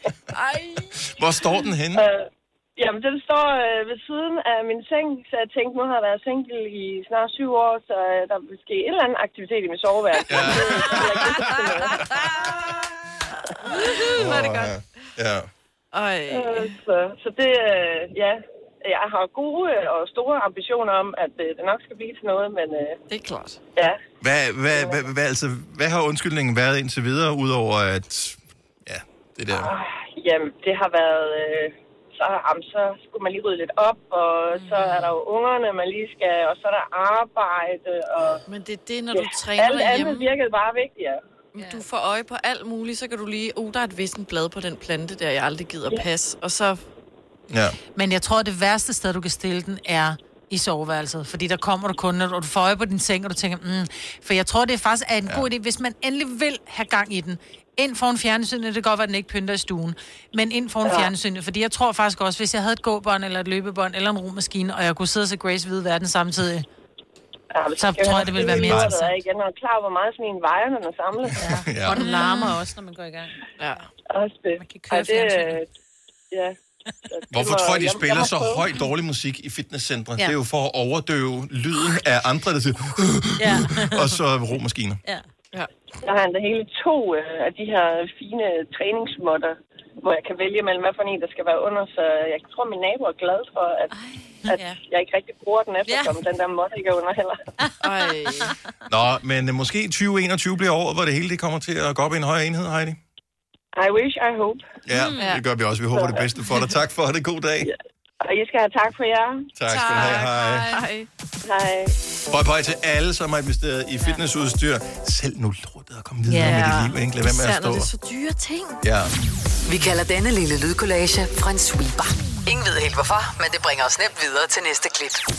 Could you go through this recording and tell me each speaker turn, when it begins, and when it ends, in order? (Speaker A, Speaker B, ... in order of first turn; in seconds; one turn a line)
Speaker A: 0.3-1.0
Speaker B: 1.1-2.0
Speaker C: 1.9-11.9
Speaker B: 10.3-12.2
Speaker A: 10.4-12.7
Speaker A: 13.6-14.8
Speaker C: 13.7-14.1
Speaker B: 14.1-15.5
Speaker A: 15.9-16.7
Speaker C: 16.3-22.9
Speaker A: 23.1-23.6
Speaker B: 24.2-29.7
Speaker C: 24.7-25.0
Speaker C: 29.5-38.4
Speaker D: 34.6-35.0
Speaker A: 38.5-40.3
Speaker C: 39.1-41.2
Speaker A: 41.5-46.8
Speaker B: 47.5-47.8
Speaker E: 47.9-66.7
Speaker C: 60.8-61.1
Speaker C: 67.5-71.5
Speaker E: 67.8-69.1
Speaker B: 68.3-69.0
Speaker D: 71.4-73.3
Speaker B: 71.4-72.0
Speaker A: 72.0-72.2
Speaker A: 73.6-73.8
Speaker C: 74.1-75.7
Speaker D: 74.6-75.5
Speaker E: 75.0-75.3
Speaker C: 77.1-78.7
Speaker B: 77.3-85.0
Speaker D: 83.4-84.2
Speaker C: 86.0-93.9
Speaker D: 94.0-94.7
Speaker C: 94.5-97.4
Speaker D: 95.9-96.2
Speaker A: 97.8-98.5
Speaker B: 98.9-103.0
Speaker C: 103.8-104.6
Speaker B: 104.8-107.7
Speaker D: 104.9-105.3
Speaker A: 105.2-105.4
Speaker C: 105.9-106.3
Speaker C: 107.6-109.5
Speaker B: 109.5-110.8
Speaker A: 109.7-111.1
Speaker C: 111.4-111.9
Speaker B: 112.3-117.9
Speaker D: 116.3-116.6
Speaker A: 116.4-118.8
Speaker B: 118.8-119.1
Speaker F: 119.7-125.2